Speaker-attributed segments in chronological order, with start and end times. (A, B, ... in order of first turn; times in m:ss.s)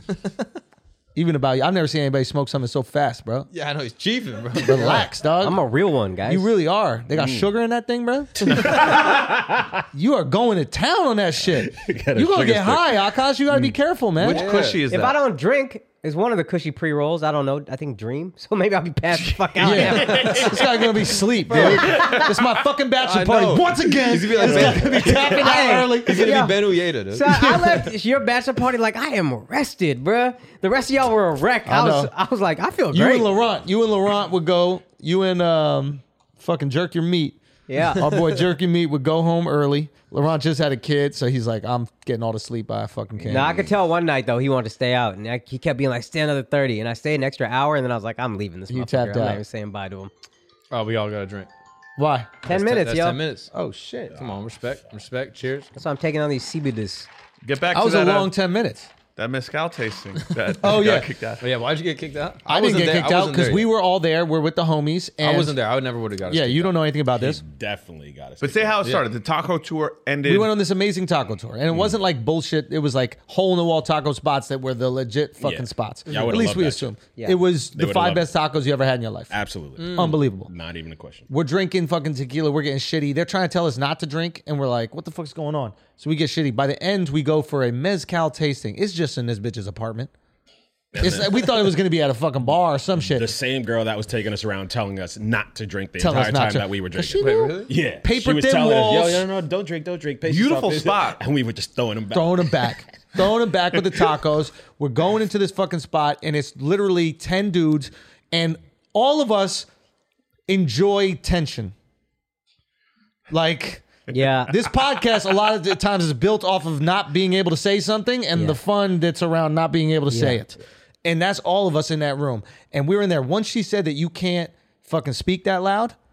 0:01.2-0:03.5 A
0:03.5-0:05.1 B
0:04.6-0:05.6 A
0:05.4-0:06.5 C
0:06.3-0:09.2 A
0:07.2-0:07.5 D
0:08.4-0:09.8 D
0:09.9-0:14.5 A
0:11.6-0:13.0 D
0:13.5-0:13.7 D
0:14.2-0:14.8 B
0:14.2-0:15.2 E
0:14.8-0:20.5 C
0:19.6-0:26.4 A
0:19.8-0:20.6 B
0:21.5-0:22.3 B
0:23.0-0:27.6 B
0:24.5-0:33.3 C
0:27.3-0:27.8 A
0:31.7-0:32.1 A
0:32.9-0:43.6 A
0:37.7-0:38.1 C
0:43.2-0:43.7 D
0:43.3-0:50.1 C
0:48.7-0:49.4 A
0:50.7-0:51.5 B
0:52.0-0:52.4 A
0:52.4-0:53.2 C
0:52.5-0:53.5 B
0:53.5-0:54.2 A
0:54.1-0:55.7 B
0:55.8-0:57.1 C
0:57.4-0:58.3 E
0:57.7-0:58.9 A
0:59.1-1:01.4 E
1:00.6-1:01.1 A
1:01.4-1:03.7 B
1:02.5-1:05.6 A
1:05.2-1:06.7 B
1:06.3-1:07.4 A
1:07.2-1:08.9 D
1:08.4-1:10.5 E
1:10.3-1:19.3 A
1:11.7-1:12.0 D
1:15.4-1:16.9 D
1:17.8-1:18.3 D
1:19.3-1:21.3 D
1:19.8-1:20.2 B
1:19.9-1:20.5 A
1:21.3-1:30.1 A
1:30.9-1:31.8 D
1:31.0-1:33.3 A
1:33.0-1:42.8 D
1:36.0-1:39.3 A
1:37.2-1:37.7 B
1:40.3-1:41.2 E
1:42.1-1:49.7 A
1:50.5-1:51.7 A
1:53.3-1:53.9 A
1:54.1-1:54.5 C
1:54.5-2:06.0 A
2:00.1-2:00.4 C